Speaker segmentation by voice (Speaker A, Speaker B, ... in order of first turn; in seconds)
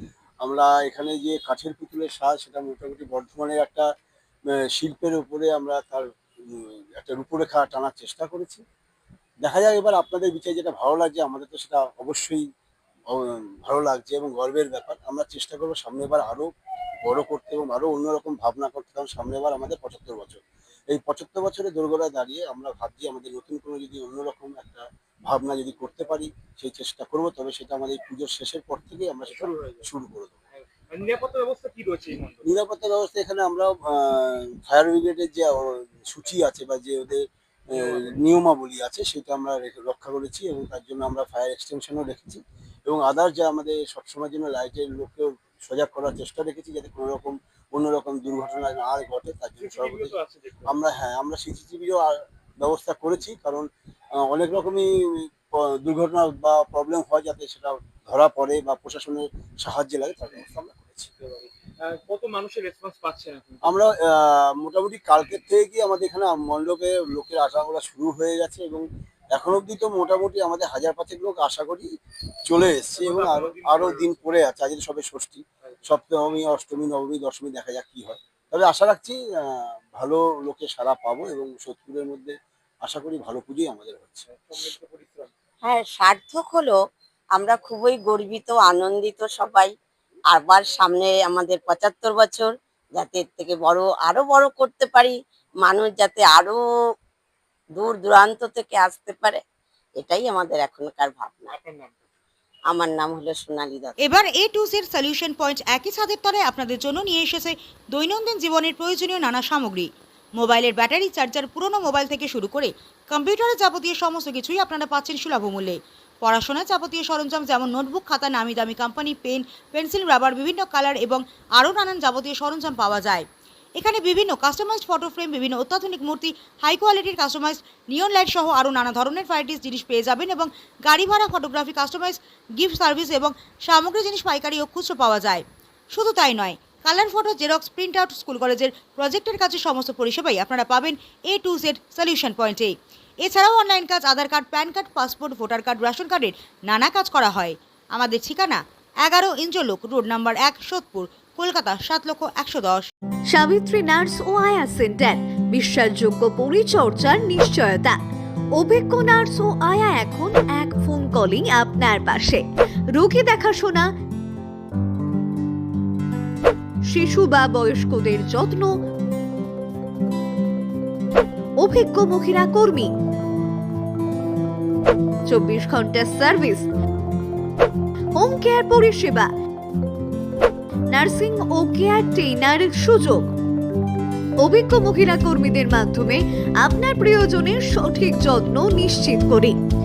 Speaker A: 0.4-3.9, 4.5-8.6, 9.4-12.5, 13.1-16.5, 17.0-30.4, 32.4-61.1, 63.6-71.9, 72.5-84.3
Speaker B: 29.3-29.9, 30.6-32.5, 37.8-38.2, 49.6-50.8, 61.2-63.8, 72.9-74.2, 84.3-85.3, 101.5-102.0
Speaker C: 85.6-86.8, 87.3-89.7, 90.3-96.6, 97.8-99.4, 100.0-101.5, 102.7-103.9
Speaker D: 104.0-123.3, 123.8-152.9
Speaker E: 153.3-158.0, 158.6-162.4, 162.9-163.9, 166.9-168.7, 171.6-172.9, 175.3-176.7, 178.2-179.3, 180.9-183.3, 184.4-189.5